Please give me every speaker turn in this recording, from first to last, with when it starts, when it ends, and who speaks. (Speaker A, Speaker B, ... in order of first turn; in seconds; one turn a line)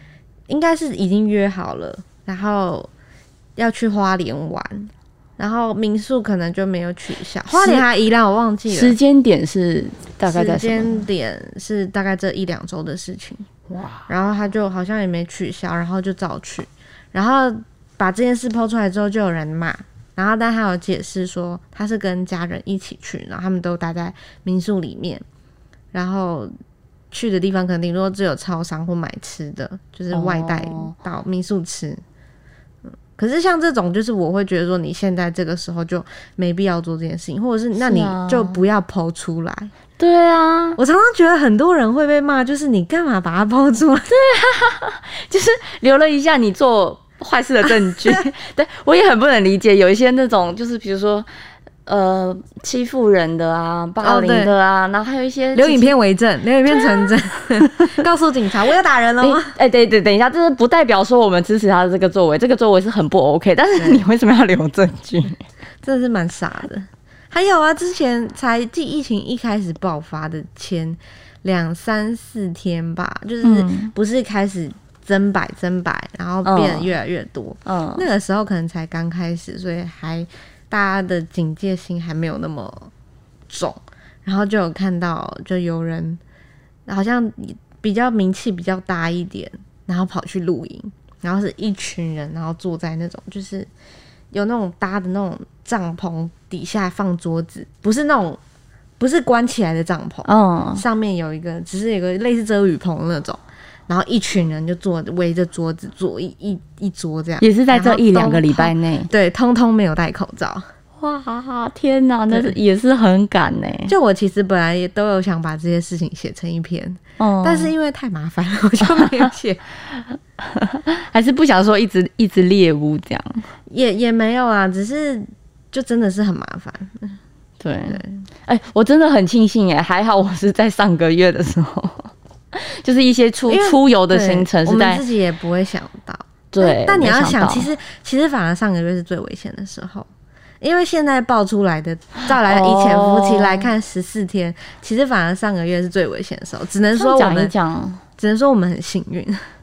Speaker A: 0.5-2.9
Speaker A: 3.6-8.9
Speaker B: 7.5-7.8
Speaker B: 8.7-11.1
Speaker A: 10.3-13.5
Speaker B: 13.7-14.0
Speaker A: 14.1-25.2
Speaker A: 25.9-26.5
Speaker A: 27.1-32.0
Speaker B: 30.1-30.9
Speaker A: 33.1-39.7
Speaker B: 37.8-38.6
Speaker B: 40.0-40.8
Speaker A: 40.8-44.1
Speaker B: 44.1-51.3
Speaker A: 47.7-48.2
Speaker B: 51.9-55.9
Speaker A: 54.0-54.5
Speaker A: 55.5-59.5
Speaker B: 59.2-65.4
Speaker A: 63.8-64.0
Speaker A: 65.8-82.9
Speaker B: 73.4-73.9
Speaker B: 76.4-76.9
Speaker B: 77.7-78.0
Speaker A: 83.5-86.2
Speaker A: 86.9-93.7
Speaker A: 94.3-98.4
Speaker A: 99.0-110.6
Speaker B: 100.2-100.8
Speaker B: 107.4-109.1
Speaker B: 111.0-113.9
Speaker A: 112.3-112.6
Speaker A: 113.9-119.6
Speaker B: 117.2-117.7
Speaker B: 118.9-119.3
Speaker B: 119.9-123.5
Speaker A: 123.7-127.2
Speaker B: 127.6-135.0
Speaker A: 127.9-128.2
Speaker A: 133.5-140.1
Speaker B: 136.5-137.7
Speaker A: 140.6-147.5
Speaker B: 142.2-143.7
Speaker B: 146.9-148.0
Speaker A: 148.2-149.4